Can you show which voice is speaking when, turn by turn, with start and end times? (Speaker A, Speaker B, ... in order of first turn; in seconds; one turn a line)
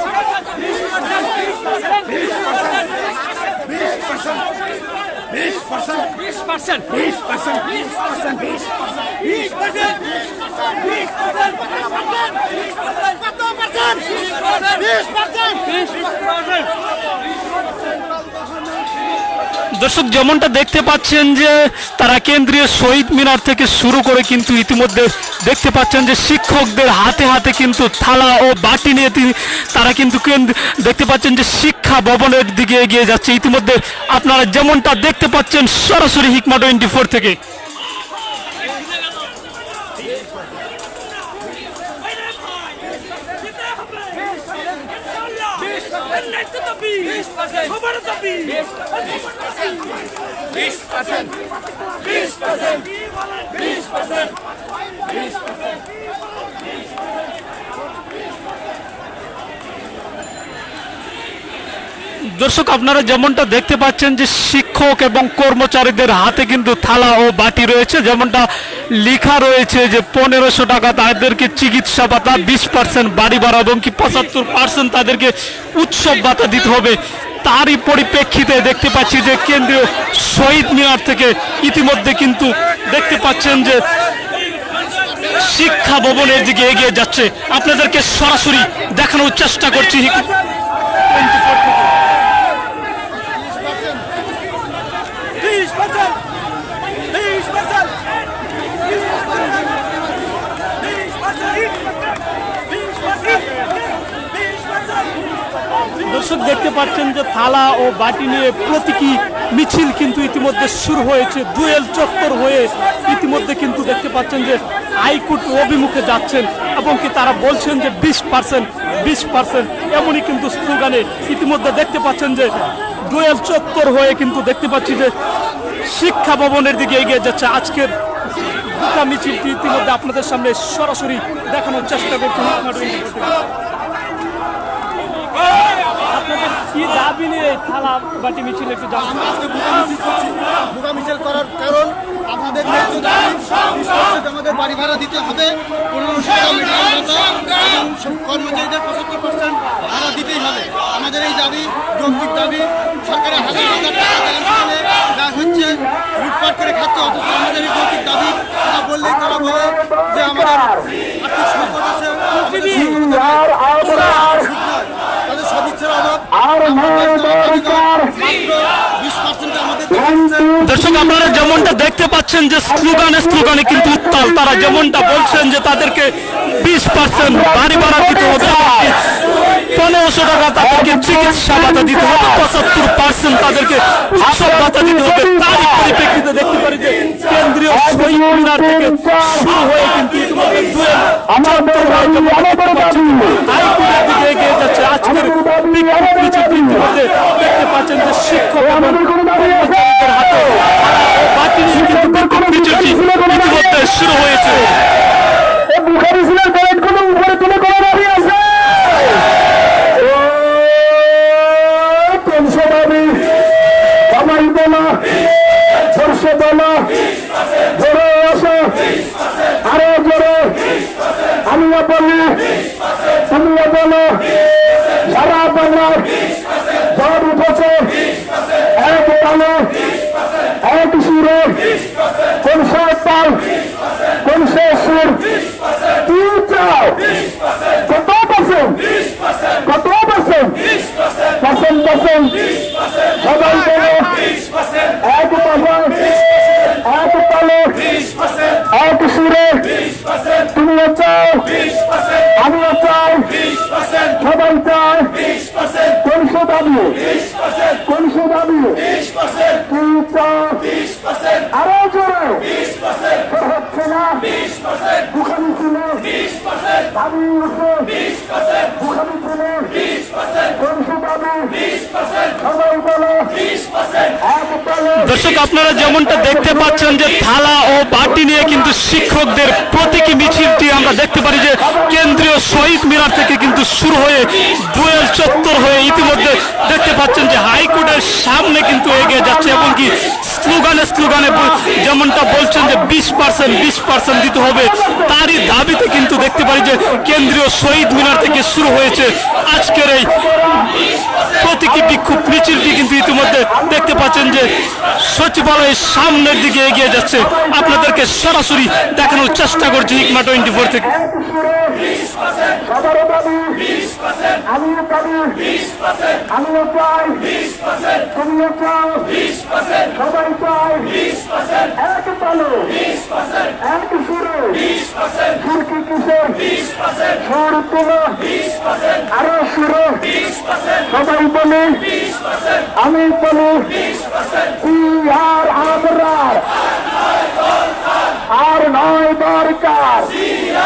Speaker A: 19.7-37.4
Speaker A: 62.3-83.8
Speaker A: 85.3-90.3
Speaker A: 91.1-91.7
Speaker A: 106.0-125.1
Speaker A: 125.8-133.3
Speaker A: 136.0-139.4
Speaker B: 139.5-154.8
Speaker C: 152.1-152.5
Speaker C: 155.2-156.3
Speaker B: 156.4-159.0
Speaker C: 159.0-160.9
Speaker B: 161.3-162.5
Speaker C: 162.7-164.5
Speaker B: 165.3-166.2
Speaker C: 166.3-168.2
Speaker B: 169.0-169.9
Speaker C: 169.9-170.8
Speaker A: 170.6-179.0
Speaker C: 177.4-178.7
Speaker A: 179.7-204.7
Speaker C: 180.9-182.2
Speaker C: 184.4-185.6
Speaker C: 188.0-189.5
Speaker C: 191.3-193.4
Speaker C: 195.2-196.6
Speaker C: 198.8-199.7
Speaker C: 202.2-203.6
Speaker C: 205.7-208.9
Speaker C: 210.0-213.3
Speaker C: 214.1-215.1
Speaker C: 215.9-217.0
Speaker C: 217.7-218.8
Speaker C: 219.6-220.6
Speaker C: 221.4-222.5
Speaker C: 223.3-224.3
Speaker C: 225.0-226.2
Speaker C: 226.9-228.0
Speaker C: 228.7-229.8
Speaker C: 230.6-231.7
Speaker C: 232.4-233.4
Speaker C: 234.2-235.3
Speaker C: 236.0-237.1
Speaker C: 237.9-238.9
Speaker C: 239.6-240.6
Speaker C: 241.4-242.5
Speaker C: 243.2-244.2
Speaker C: 245.0-246.1
Speaker C: 246.8-247.8
Speaker C: 248.7-249.7
Speaker C: 250.5-251.5
Speaker C: 252.3-253.4
Speaker C: 254.1-255.2
Speaker C: 255.9-257.0
Speaker C: 257.8-258.9
Speaker C: 259.6-260.7
Speaker C: 261.5-262.5
Speaker C: 263.2-264.4
Speaker C: 265.1-266.2
Speaker C: 266.9-268.0
Speaker C: 268.7-269.9
Speaker C: 270.5-271.7
Speaker C: 272.4-273.4
Speaker C: 274.2-275.0
Speaker A: 275.0-300.1
Speaker C: 300.2-300.7
Speaker A: 301.4-310.9
Speaker C: 310.9-311.9
Speaker C: 312.6-313.7
Speaker C: 314.5-315.5
Speaker C: 316.3-317.4
Speaker C: 318.1-319.2
Speaker C: 319.9-321.0
Speaker C: 321.8-322.8
Speaker C: 323.6-324.7
Speaker C: 325.3-326.5
Speaker C: 327.2-328.2
Speaker C: 329.1-330.1
Speaker C: 330.9-331.9
Speaker C: 332.8-333.8
Speaker C: 334.6-336.5
Speaker C: 338.3-340.1